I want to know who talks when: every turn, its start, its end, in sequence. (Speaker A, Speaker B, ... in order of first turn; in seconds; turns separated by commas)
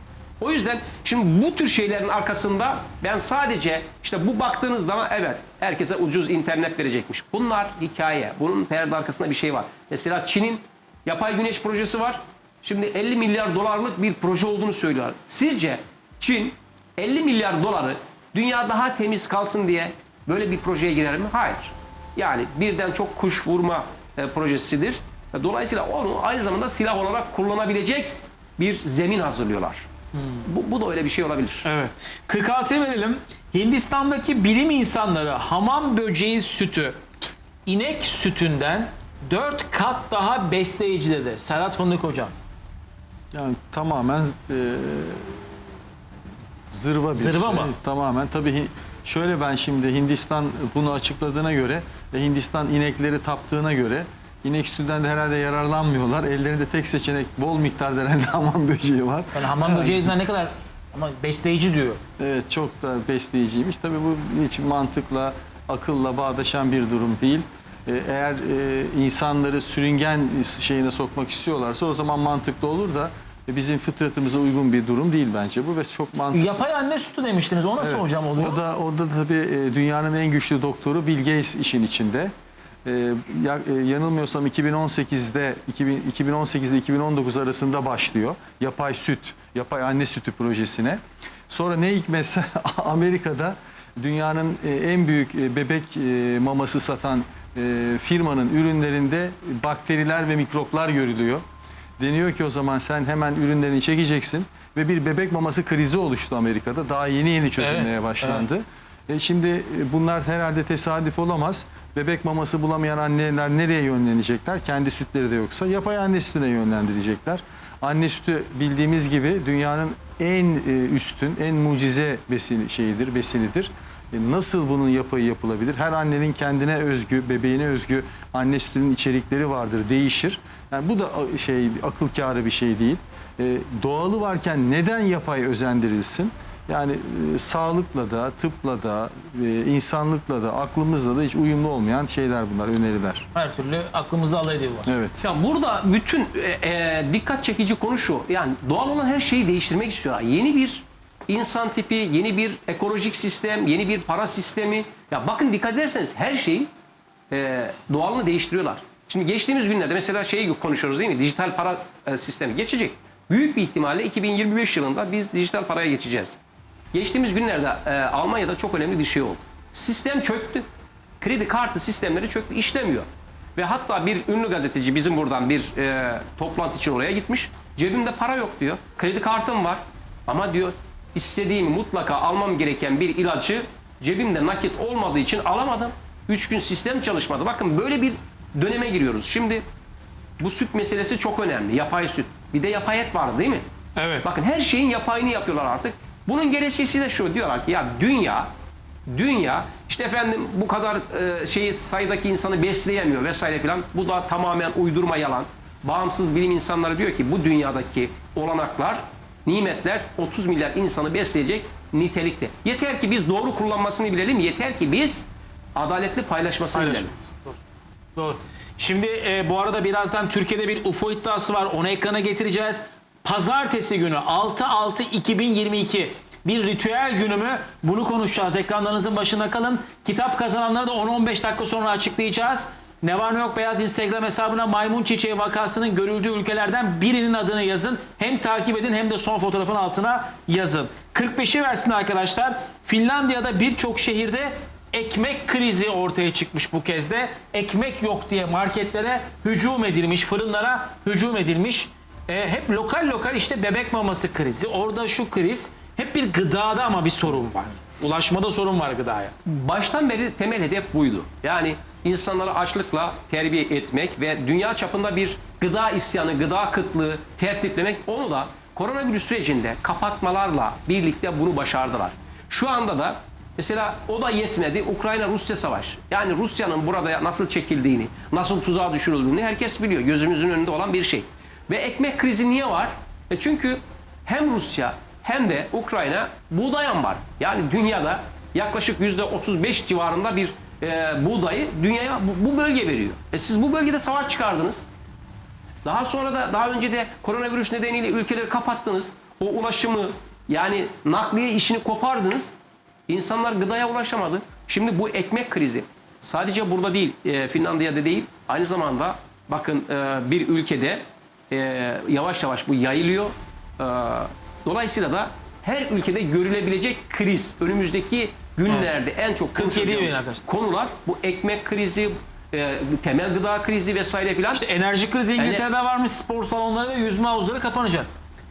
Speaker A: 0.4-29.9, Speaker B: 30.1-30.4, Speaker A: 30.4-31.6, Speaker B: 31.6-37.0, Speaker B: 37.6-42.3, Speaker C: 43.3-45.4, Speaker C: 46.7-60.1, Speaker B: 47.1-47.7, Speaker B: 59.3-62.0, Speaker C: 62.2-76.7, Speaker B: 76.3-78.6, Speaker C: 77.8-82.3, Speaker C: 82.8-101.4, Speaker C: 102.0-143.3, Speaker B: 107.6-108.5, Speaker B: 143.3-144.9, Speaker C: 144.8-145.2, Speaker A: 145.2-156.7, Speaker A: 157.3-166.4, Speaker A: 166.9-170.6, Speaker A: 171.2-189.6, Speaker A: 190.4-193.6, Speaker B: 193.9-194.3, Speaker A: 194.2-198.5, Speaker A: 199.1-217.1, Speaker B: 216.7-217.6, Speaker B: 218.2-259.3, Speaker A: 259.4-294.9, Speaker A: 295.8-302.5, Speaker A: 303.1-324.6, Speaker B: 319.5-320.4, Speaker B: 324.5-328.1, Speaker A: 325.4-325.6